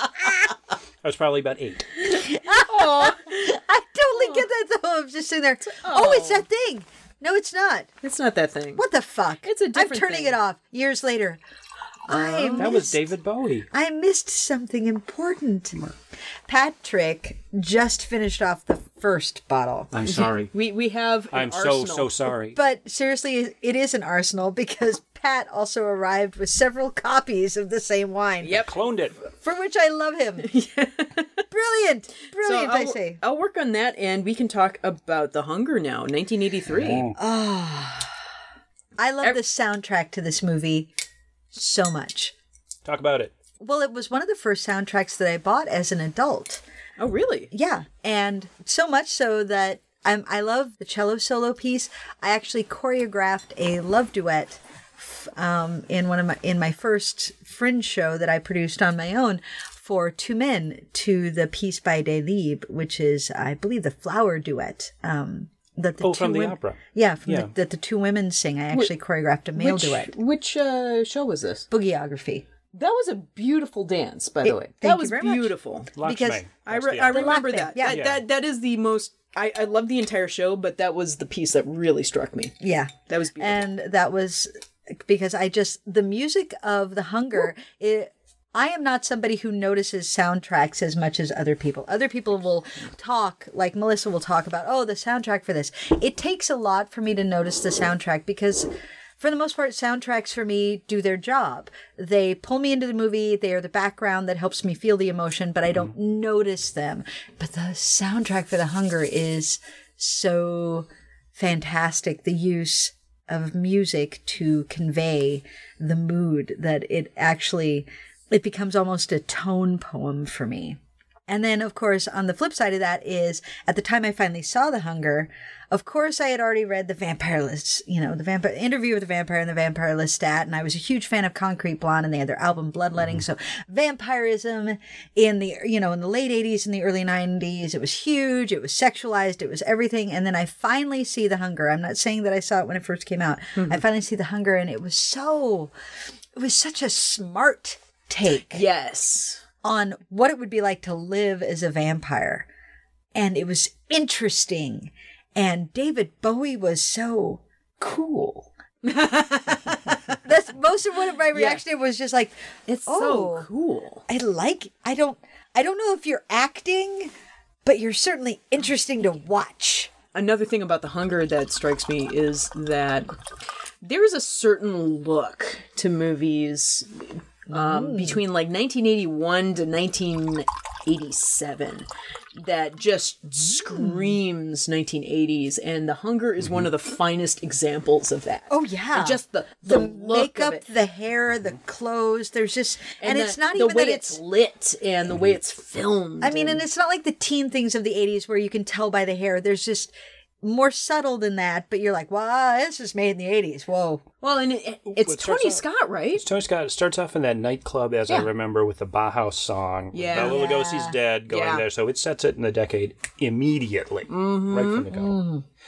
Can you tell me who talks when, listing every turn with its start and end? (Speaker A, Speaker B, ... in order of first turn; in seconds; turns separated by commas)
Speaker A: 1.0-1.9, Speaker B: 2.1-7.9, Speaker C: 2.5-3.4, Speaker C: 4.2-4.4, Speaker C: 5.7-6.4, Speaker C: 8.0-8.8, Speaker B: 8.8-11.4, Speaker C: 9.4-10.4, Speaker B: 12.1-13.0, Speaker C: 12.1-12.8, Speaker A: 12.6-13.7, Speaker B: 13.7-15.8, Speaker B: 16.5-19.9, Speaker A: 19.9-20.5, Speaker C: 20.1-22.3, Speaker A: 21.3-22.6, Speaker B: 22.5-28.6, Speaker C: 28.4-28.8, Speaker A: 28.5-29.1, Speaker B: 29.4-30.5, Speaker C: 30.4-31.4, Speaker B: 31.5-33.2, Speaker C: 32.4-37.0, Speaker A: 36.7-37.2, Speaker B: 37.1-38.1, Speaker B: 39.0-40.9, Speaker B: 41.5-42.3, Speaker A: 42.9-43.3, Speaker B: 43.6-46.6, Speaker C: 47.0-47.5, Speaker B: 47.5-70.1, Speaker A: 66.0-67.5, Speaker C: 69.5-71.7, Speaker B: 71.7-72.4, Speaker C: 72.7-75.9, Speaker B: 74.4-78.0, Speaker A: 76.0-78.2, Speaker C: 76.7-82.5, Speaker B: 82.6-98.7, Speaker C: 83.1-83.6, Speaker B: 99.2-145.7, Speaker C: 143.6-143.8, Speaker B: 146.3-148.6, Speaker C: 148.5-149.4, Speaker B: 149.6-152.5, Speaker B: 153.1-158.5, Speaker C: 158.8-160.0, Speaker B: 160.1-163.5, Speaker C: 161.3-161.6, Speaker C: 162.7-164.0, Speaker B: 164.1-167.1, Speaker B: 167.6-169.9, Speaker C: 170.1-173.2, Speaker C: 173.8-190.6, Speaker B: 177.5-178.2, Speaker B: 188.5-194.2, Speaker C: 193.0-196.6, Speaker B: 196.2-204.0, Speaker C: 204.2-206.2, Speaker A: 204.9-205.6, Speaker A: 206.1-215.2, Speaker C: 209.9-210.4, Speaker B: 210.1-210.9, Speaker C: 211.3-211.6, Speaker C: 214.1-214.9, Speaker B: 214.9-215.4